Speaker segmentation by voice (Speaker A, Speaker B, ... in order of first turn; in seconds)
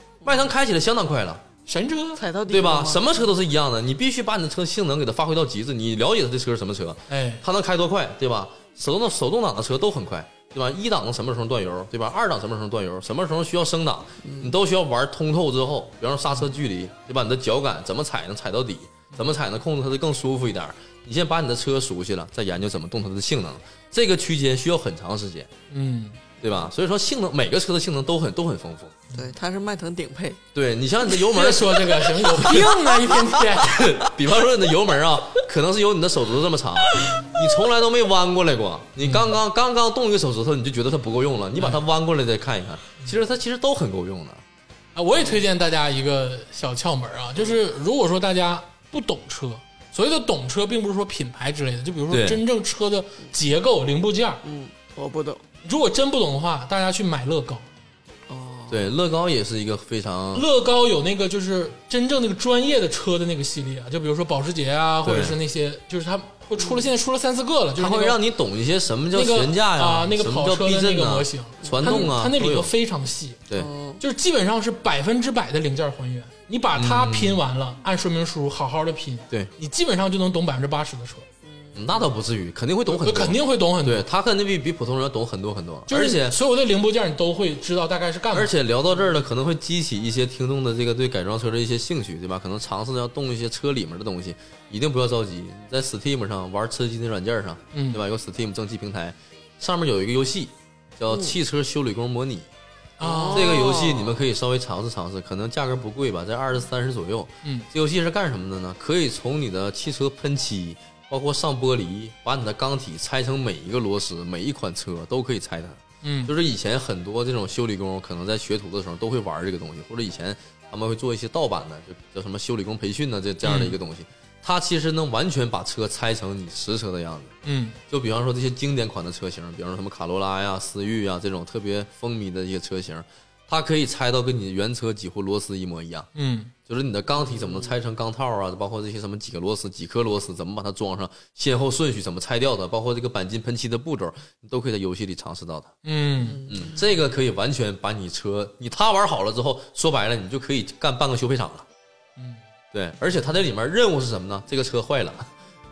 Speaker A: 0.2-0.5, 2.2-3.2, 14.2-14.5, 29.1-30.4, 32.3-33.2, 54.4-55.4, 58.3-58.9, 66.6-66.8, 71.6-72.1, 73.5-74.0, 81.4-82.1, 101.1-101.3, 103.0-104.2, 137.2-137.7, 146.3-146.7
Speaker B: 0.2-1.4, 2.5-25.5, 26.4-29.0, 30.5-32.7, 33.5-44.4, 52.1-52.4, 58.7-60.5, 65.0-65.4, 67.8-72.7, 76.7-77.4, 81.7-86.4, 88.3-102.5, 103.3-127.3, 127.9-136.1, 136.7-145.7, 146.5-151.7, 152.7-155.3
Speaker C: 1.7-2.2, 7.1-7.4, 25.7-26.2, 31.3-33.9, 39.0-39.3, 44.9-54.4, 55.6-57.7, 60.3-68.2, 69.1-73.4, 74.0-81.3, 82.9-84.0, 85.9-88.5, 97.7-98.0, 103.0-103.7, 116.0-116.3, 123.4-123.8, 127.4-127.8, 136.1-136.5, 145.8-146.5, 152.2-152.4